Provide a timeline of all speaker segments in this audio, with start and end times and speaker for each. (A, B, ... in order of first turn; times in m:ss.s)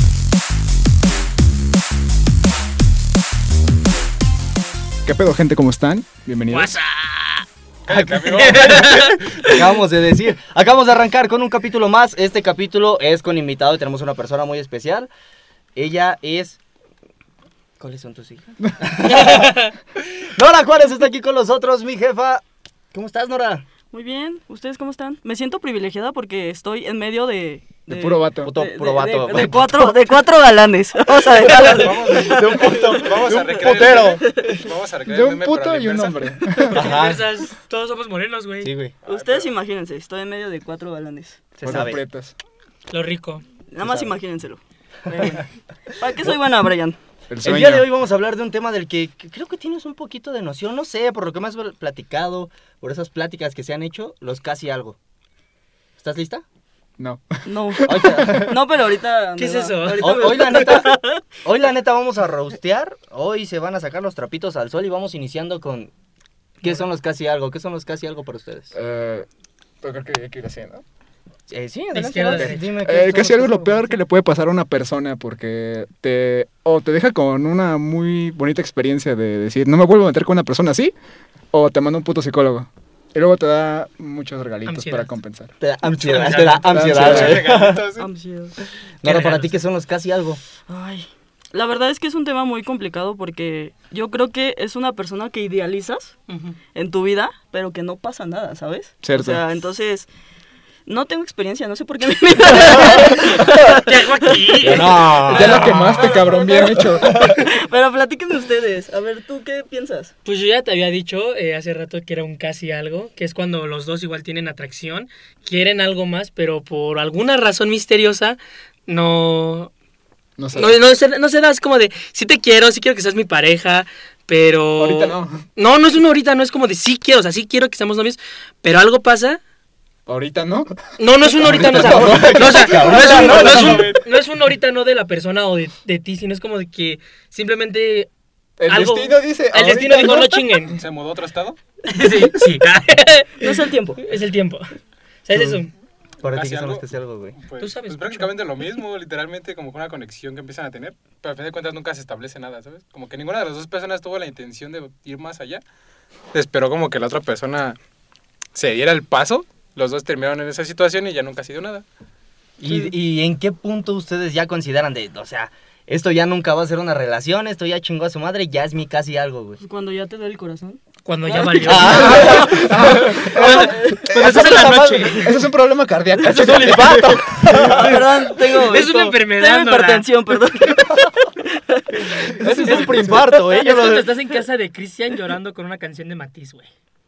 0:05.0-0:06.8 A
0:06.5-0:07.4 B
0:07.8-0:09.2 C
0:07.9-0:15.1 D
0:08.3-0:09.6 B
0:15.7-0:16.6 D
0:17.8-0:23.6 D
0:19.0-0:19.7 B
0:23.9-0:34.6 E
0:27.9-0:28.5 A
0:28.4-0:29.9 D
0:31.3-0:34.6 D
0:31.4-0:36.6 C
0:33.8-0:34.1 A
0:35.1-0:36.8 A
0:36.6-0:37.4 D
0:36.7-0:38.7 B
0:38.6-0:39.0 D
0:39.0-0:39.5 C
0:39.0-0:41.5 E
0:41.6-0:42.3 A
0:41.6-0:42.0 D
0:42.9-0:43.4 B
0:43.7-0:47.0 E
0:43.8-0:44.2 D
0:45.2-0:45.4 D
0:47.3-0:47.9 A
0:47.4-0:55.0 D
0:56.0-0:56.4 D
0:57.0-0:58.5 A
0:57.4-1:01.2 E
0:57.8-0:58.6 D
0:59.4-1:00.4 B
1:00.0-1:05.9 D
1:06.6-1:08.7 D
1:08.7-1:09.3 A
1:09.8-1:10.8 A
1:11.5-1:14.0 D
1:11.9-1:12.6 B
1:12.3-1:20.9 A
1:21.5-1:25.5 A
1:24.6-1:25.1 B
1:25.6-1:27.9 D
1:26.0-1:26.8 B
1:26.1-1:28.1 C
1:26.6-1:27.6 A
1:27.5-1:28.6 E
1:29.0-1:30.4 D
1:29.0-1:29.7 B
1:30.7-1:36.2 E
1:36.3-1:36.6 B
1:36.7-1:40.1 E
1:39.0-1:39.4 A
1:40.9-1:50.1 E
1:42.6-1:43.0 D
1:42.9-1:45.7 B
1:44.6-1:46.2 D
1:44.6-1:47.5 A
1:47.0-1:47.4 D
1:50.2-1:59.7 B
2:00.4-2:00.8 A
2:00.5-2:09.4 B
2:04.8-2:05.4 A
2:10.0-2:14.0 A
2:11.0-2:18.1 B
2:11.8-2:13.9 D
2:12.6-2:14.0 C
2:18.6-2:20.8 A
2:18.7-2:20.8 B
2:20.7-2:21.6 C
2:21.9-2:24.7 B
2:23.4-2:24.0 E
2:25.2-2:25.7 B
2:25.3-2:25.6 D
2:26.2-2:27.4 D
2:26.2-2:26.8 C
2:27.4-2:35.6 C
2:27.6-2:28.3 B
2:36.3-2:37.8 C
2:38.5-2:41.8 C
2:42.6-2:49.6 D
2:49.6-2:54.8 E
2:51.0-2:55.4 B
2:51.6-2:53.6 D
2:51.8-2:58.0 A
2:54.2-2:55.1 D
2:56.2-3:03.2 E
2:56.2-2:58.0 D
2:58.4-3:00.1 B
3:02.2-3:04.1 D
3:02.4-3:03.2 A
3:02.5-3:06.7 B